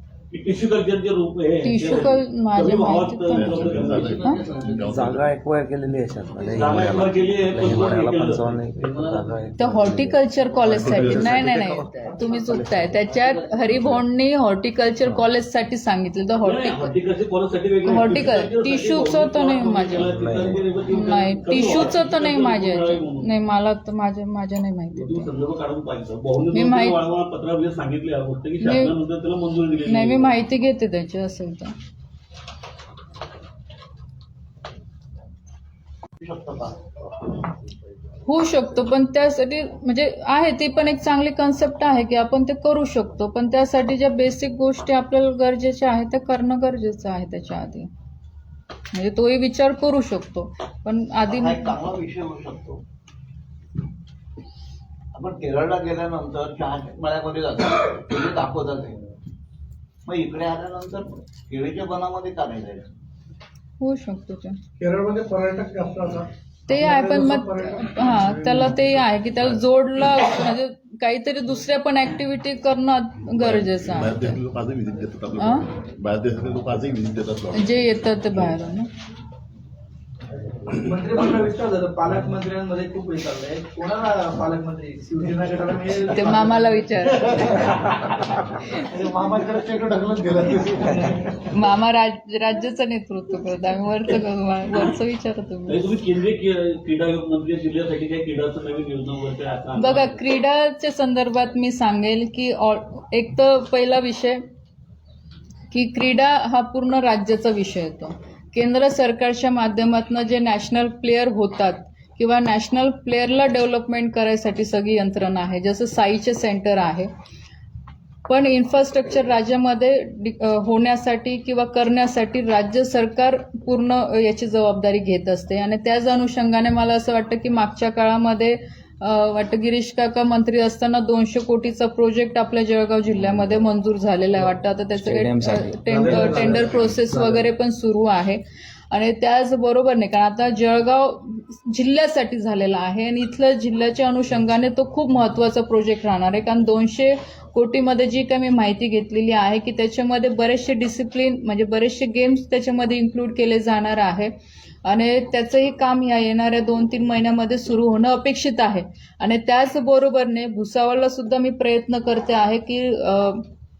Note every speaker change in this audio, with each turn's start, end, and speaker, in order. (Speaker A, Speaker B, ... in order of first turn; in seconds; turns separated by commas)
Speaker A: 0.3-4.3, Speaker B: 1.6-3.6, Speaker C: 3.3-5.3, Speaker D: 3.7-4.9, Speaker E: 4.8-10.2, Speaker A: 6.4-9.3, Speaker B: 9.6-16.9, Speaker C: 10.6-11.7, Speaker E: 11.0-11.8, Speaker D: 12.0-12.4, Speaker E: 12.4-12.9, Speaker D: 12.9-13.8, Speaker A: 16.4-23.3, Speaker B: 17.8-20.1, Speaker E: 20.0-20.7, Speaker B: 20.9-25.3, Speaker A: 24.9-30.4, Speaker B: 26.5-27.0, Speaker B: 28.6-28.9, Speaker B: 29.9-31.8, Speaker D: 36.2-37.6, Speaker B: 38.2-47.9, Speaker B: 48.9-51.8, Speaker D: 51.2-52.8, Speaker D: 55.1-59.0, Speaker D: 60.0-62.9, Speaker B: 63.8-64.6, Speaker F: 64.8-68.8, Speaker B: 66.7-74.4, Speaker C: 73.3-78.5, Speaker B: 75.4-75.7, Speaker B: 77.5-78.9, Speaker G: 80.7-87.7, Speaker B: 86.1-87.4, Speaker H: 88.8-91.3, Speaker B: 91.5-95.8, Speaker A: 95.7-100.2, Speaker B: 99.8-104.4, Speaker B: 105.7-117.1, Speaker B: 118.3-138.4, Speaker E: 135.0-136.8, Speaker F: 136.1-136.4, Speaker B: 138.9-154.3, Speaker B: 154.8-163.4